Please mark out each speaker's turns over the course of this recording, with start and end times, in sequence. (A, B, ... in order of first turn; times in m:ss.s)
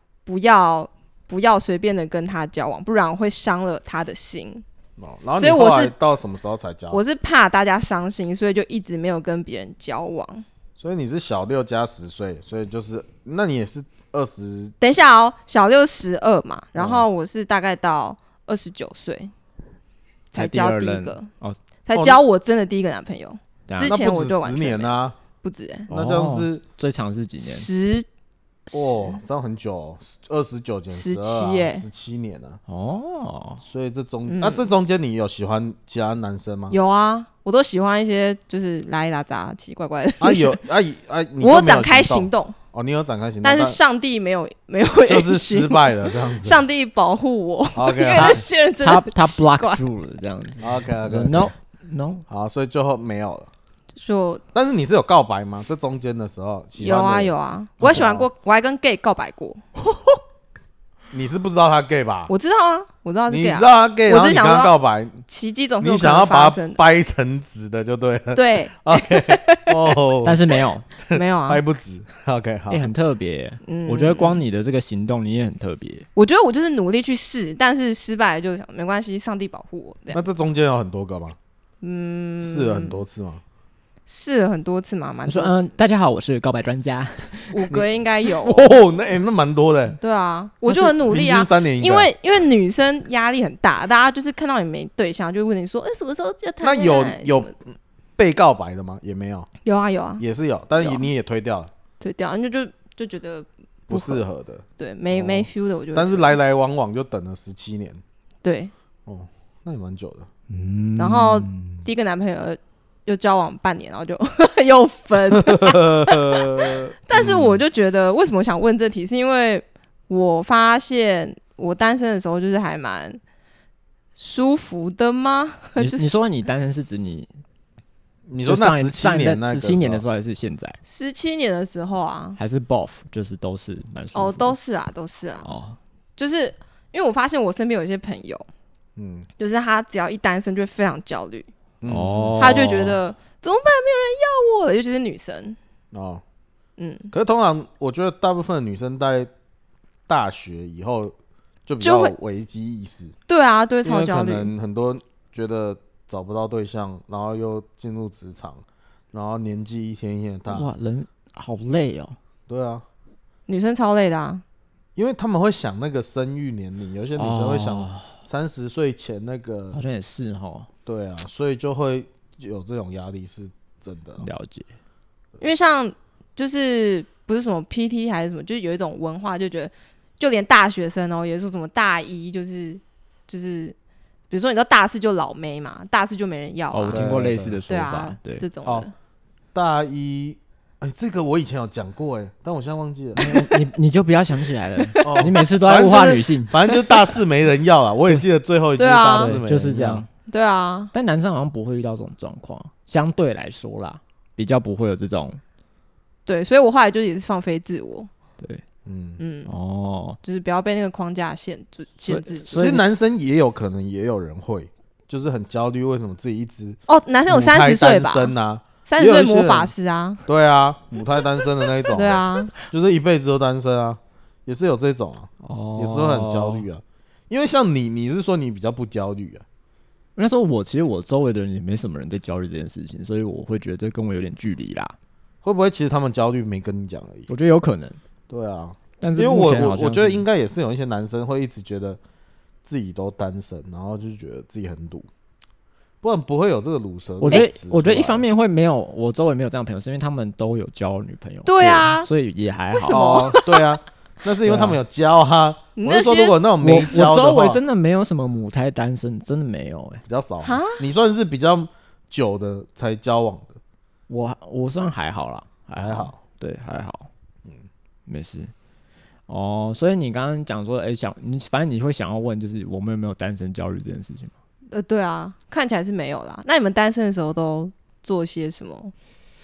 0:00.2-0:04.6 A
0:05.0-0:07.0 B
0:05.4-0:05.9 A
0:06.9-0:10.4 A
0:10.8-0:14.7 B
0:14.8-0:19.3 A
0:16.8-0:17.0 B
0:20.3-0:21.3 A
0:20.3-0:21.6 C
0:21.8-0:25.9 A
0:21.9-0:22.2 B
0:23.7-0:23.9 C
0:23.8-0:25.2 B
0:25.9-0:26.6 B
0:25.9-0:27.7 C
0:27.4-0:28.1 A
0:28.7-0:29.2 A
0:28.7-0:32.6 B
0:30.9-0:31.8 A
0:32.7-0:33.6 C
0:33.6-0:36.8 B
0:34.3-0:34.7 A
0:36.7-0:40.6 A
0:40.2-0:43.8 B
0:41.4-0:42.6 A
0:43.4-0:49.8 A
0:45.1-0:46.6 B
0:47.7-0:48.4 B
0:48.2-0:52.2 C
0:50.6-0:51.5 B
0:52.3-0:53.5 B
0:54.0-0:54.4 A
0:54.5-0:58.2 B
0:56.8-0:59.6 A
1:01.1-1:02.3 B
1:02.3-1:04.7 A
1:03.3-1:05.2 B
1:05.2-1:06.8 A
1:05.8-1:10.4 B
1:08.3-1:09.8 A
1:10.2-1:10.9 C
1:11.0-1:12.9 B
1:11.1-1:11.6 A
1:12.7-1:16.1 C
1:13.6-1:14.4 A
1:16.2-1:20.2 A
1:20.1-1:21.4 B
1:21.8-1:23.0 A
1:22.4-1:23.4 B
1:24.1-1:25.7 A
1:25.3-1:27.7 C
1:27.5-1:28.7 A
1:27.7-1:30.0 B
1:30.0-1:37.5 A
1:30.7-1:32.1 B
1:36.6-1:39.5 B
1:39.6-1:40.2 A
1:40.2-1:41.7 B
1:40.8-1:41.1 A
1:42.0-1:44.2 A
1:43.9-1:48.0 B
1:44.8-1:46.4 A
1:48.4-1:48.7 A
1:49.0-1:50.3 B
1:50.5-1:51.8 C
1:51.0-2:03.2 A
1:55.4-1:57.6 B
2:04.2-2:06.1 A
2:05.8-2:07.3 C
2:08.3-2:10.0 B
2:08.4-2:10.8 C
2:10.8-2:12.4 A
2:12.4-2:14.6 C
2:14.1-2:15.5 A
2:15.4-2:15.8 C
2:16.2-2:18.4 A
2:19.0-2:19.3 B
2:19.4-2:21.5 A
2:21.8-2:22.7 B
2:21.9-2:23.0 C
2:22.4-2:25.6 A
2:25.9-2:26.2 B
2:26.8-2:27.1 A
2:27.1-2:29.3 B
2:30.1-2:31.1 B
2:31.6-2:33.1 B
2:31.8-2:32.1 A
2:33.3-2:34.5 A
2:33.8-2:40.7 B
2:40.5-2:42.2 C
2:42.5-2:42.8 B
2:43.5-2:44.4 A
2:45.0-2:49.8 B
2:47.2-2:48.2 C
2:49.7-2:50.7 C
2:50.8-2:54.3 B
2:54.2-2:54.7 C
2:55.4-3:03.8 A
3:04.3-3:07.2 A
3:06.7-3:08.4 C
3:06.9-3:07.6 B
3:07.7-3:08.9 A
3:09.5-3:13.4 B
3:13.2-3:16.5 C
3:15.0-3:20.1 B
3:18.8-3:19.4 A
3:19.2-3:20.1 C
3:20.3-3:20.9 A
3:20.9-3:25.4 C
3:26.2-3:28.1 A
3:28.8-3:29.2 B
3:29.2-3:29.5 A
3:29.4-3:30.2 C
3:30.2-3:32.5 A
3:32.1-3:32.8 C
3:32.5-3:39.7 B
3:36.9-3:38.3 A
3:38.8-3:40.2 A
3:40.2-3:49.4 B
3:41.9-3:42.5 A
3:45.4-3:46.6 C
3:50.2-3:54.9 C
3:55.4-3:57.3 B
3:57.3-3:58.0 C
3:58.3-4:02.0 B
3:59.0-4:00.2 C
4:02.6-4:05.1 B
4:06.0-4:08.2 B
4:07.2-4:13.4 C
4:11.4-4:12.1 A
4:12.7-4:13.6 A
4:12.9-4:17.6 B
4:14.4-4:14.8 C
4:15.8-4:16.4 A
4:16.6-4:20.0 C
4:20.0-4:23.6 B
4:20.4-4:20.8 A
4:24.1-4:27.1 C
4:25.8-4:26.2 B
4:28.1-4:28.5 C
4:29.3-4:34.3 C
4:34.7-4:38.9 A